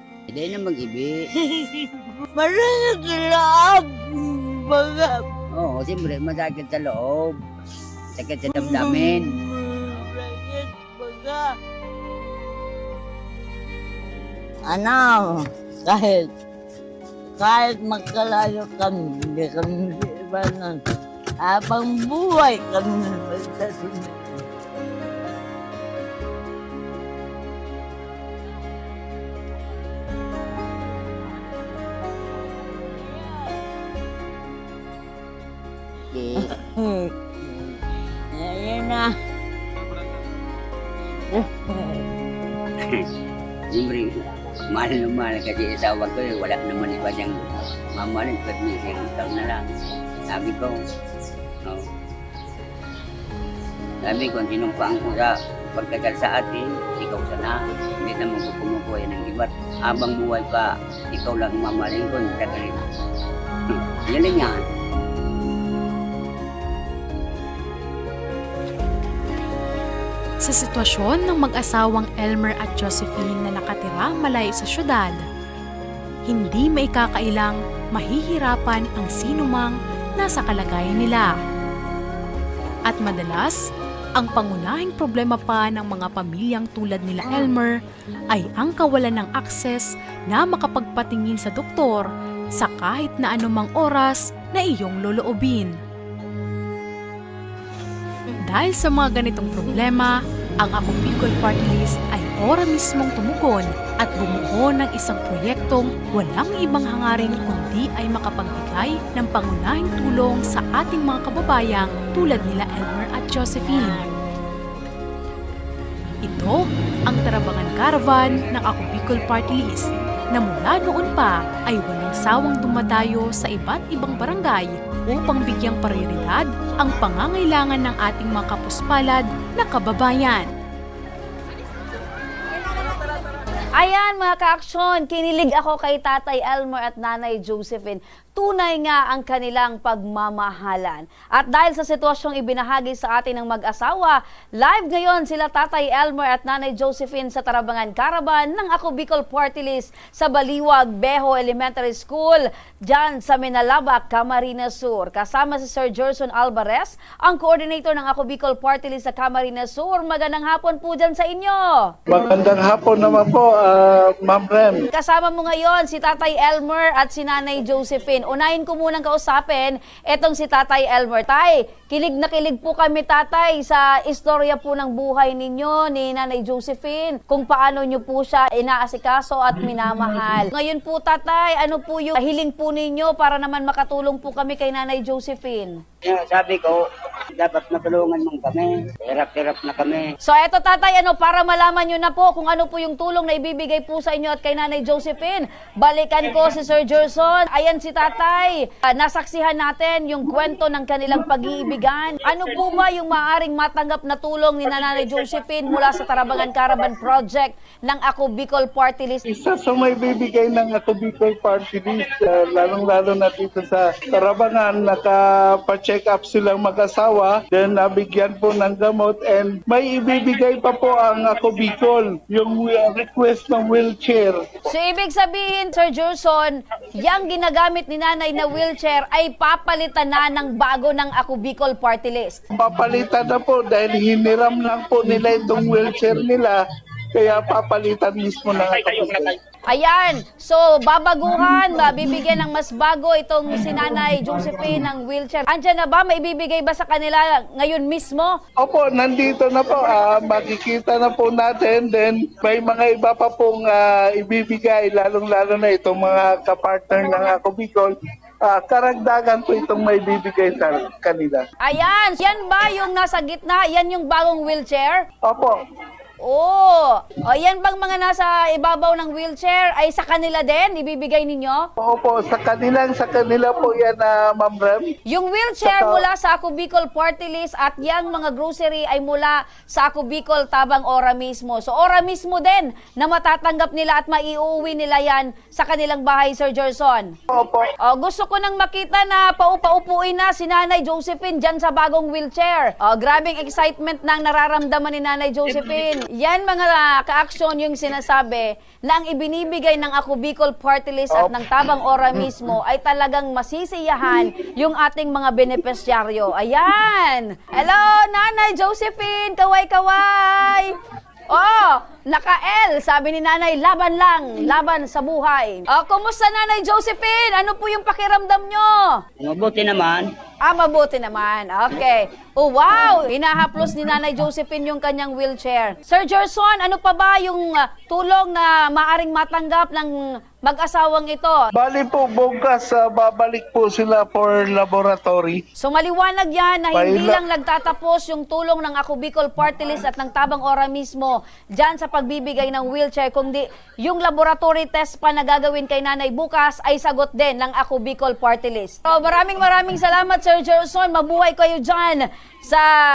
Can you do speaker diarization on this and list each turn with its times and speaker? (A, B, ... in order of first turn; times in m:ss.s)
0:00.3-0:01.2 A
0:01.4-0:05.2 B
0:05.5-0:07.4 A
0:08.2-0:09.3 A
0:08.5-0:11.4 B
0:14.7-0:16.3 B
0:17.4-0:20.8 B
0:21.4-0:24.4 B
0:33.0-0:33.6 B
0:36.3-0:37.8 B
0:38.3-0:39.1 B
0:41.3-0:42.1 B
0:43.7-0:44.1 A
0:44.7-0:49.6 A
0:50.3-0:50.7 A
0:54.0-1:02.8 A
1:04.1-1:04.6 A
1:10.4-1:15.2 C
1:16.3-1:21.3 C
1:22.9-1:23.6 C
1:24.2-1:27.7 C
1:28.3-1:35.7 C
1:38.4-1:54.0 C
1:53.6-1:54.2 B
1:56.2-2:10.5 C
2:13.8-2:41.7 D
2:42.1-2:44.8 E
2:44.9-3:05.7 D
3:06.0-3:06.8 A
3:07.3-3:10.1 A
3:10.2-3:29.2 D
3:29.3-3:44.4 E
3:44.7-3:52.4 D
3:52.6-3:56.6 E
3:57.2-3:59.3 E
3:59.7-4:08.3 D
4:08.6-4:17.9 E
4:18.4-4:21.4 E
4:21.6-4:25.0 D
4:25.3-4:25.5 E
4:26.2-4:31.6 D
4:31.8-4:34.9 E
4:35.1-4:47.1 D
4:35.6-4:36.0 E
4:47.3-4:47.6 E
4:47.8-5:10.7 D
5:11.3-5:19.0 D
5:19.2-5:20.1 A
5:20.4-5:29.9 D
5:30.4-5:31.4 D
5:31.6-5:35.4 E
5:35.6-5:52.6 D
5:36.7-5:37.2 E